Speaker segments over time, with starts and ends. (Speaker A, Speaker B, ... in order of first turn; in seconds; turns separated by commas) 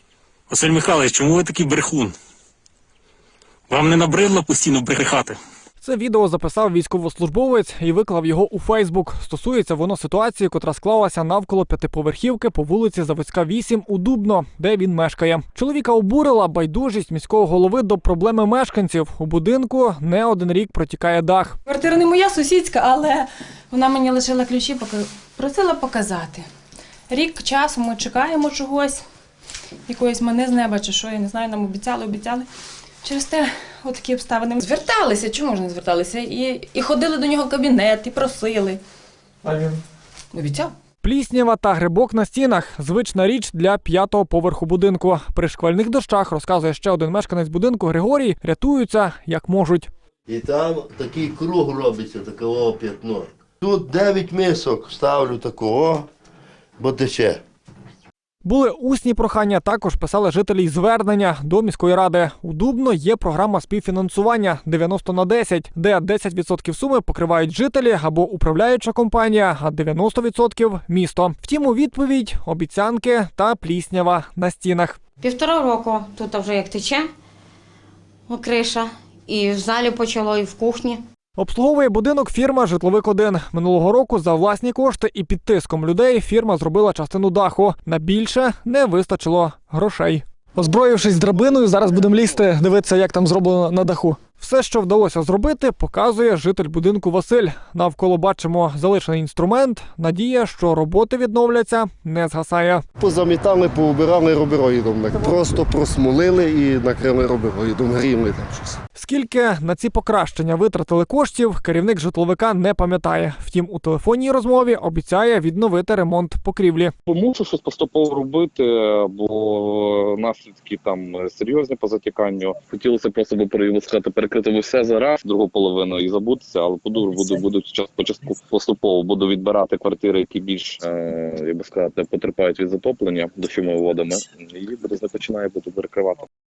Speaker A: 0.5-2.1, Speaker A: 3.7-5.4, Speaker B: 5.8-21.6, Speaker C: 21.7-26.4, Speaker C: 27.1-29.0, Speaker C: 29.9-32.5, Speaker C: 33.0-38.8, Speaker B: 39.4-39.8, Speaker C: 40.3-40.7, Speaker B: 41.0-49.9, Speaker D: 50.3-56.1, Speaker D: 56.8-57.4, Speaker B: 58.4-75.0, Speaker E: 75.2-77.1, Speaker E: 78.3-81.0, Speaker B: 81.4-102.8, Speaker D: 103.0-108.8, Speaker B: 109.0-116.9, Speaker F: 117.1-136.3